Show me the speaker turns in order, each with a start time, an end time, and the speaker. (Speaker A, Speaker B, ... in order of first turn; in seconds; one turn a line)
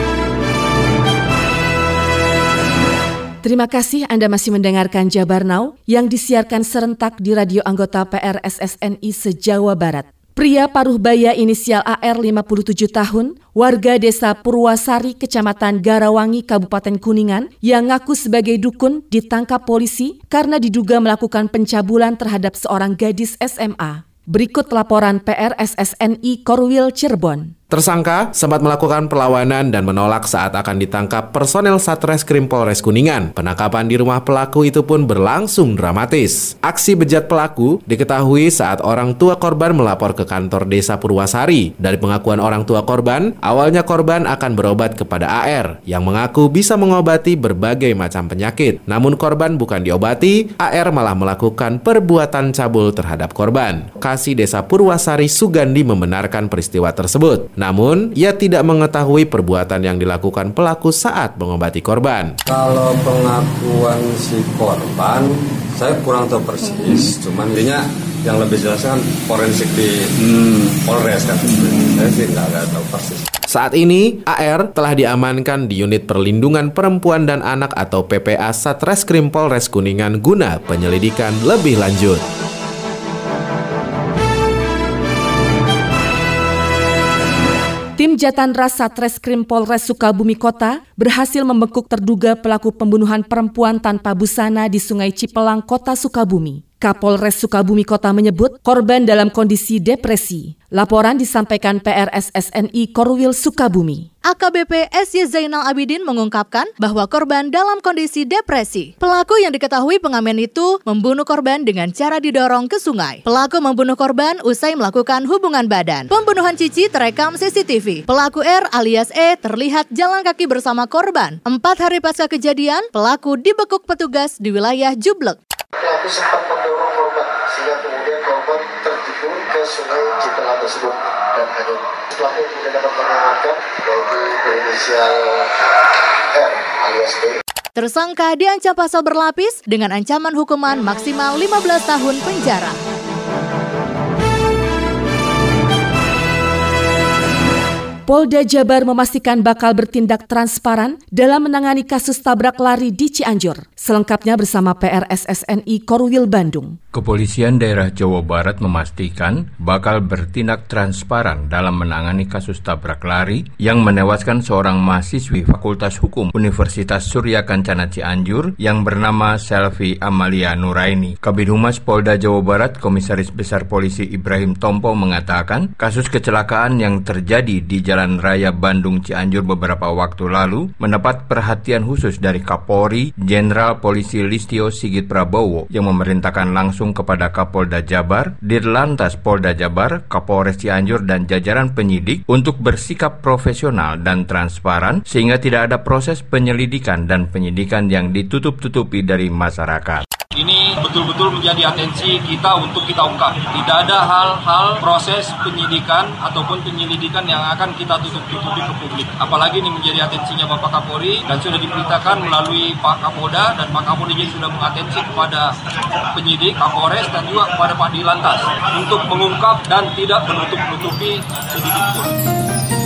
Speaker A: 3.4-27.5
Speaker B: 27.7-62.4
Speaker C: 62.5-73.3
Speaker B: 73.5-82.2
Speaker A: 88.0-104.1
Speaker D: 104.2-125.4
Speaker E: 125.8-129.5
Speaker E: 130.2-130.9
Speaker E: 132.3-135.1
Speaker E: 136.3-137.3
Speaker D: 137.8-142.8
Speaker A: 148.1-156.8
Speaker F: 156.9-200.1
Speaker G: 200.3-215.5
Speaker G: 216.1-222.1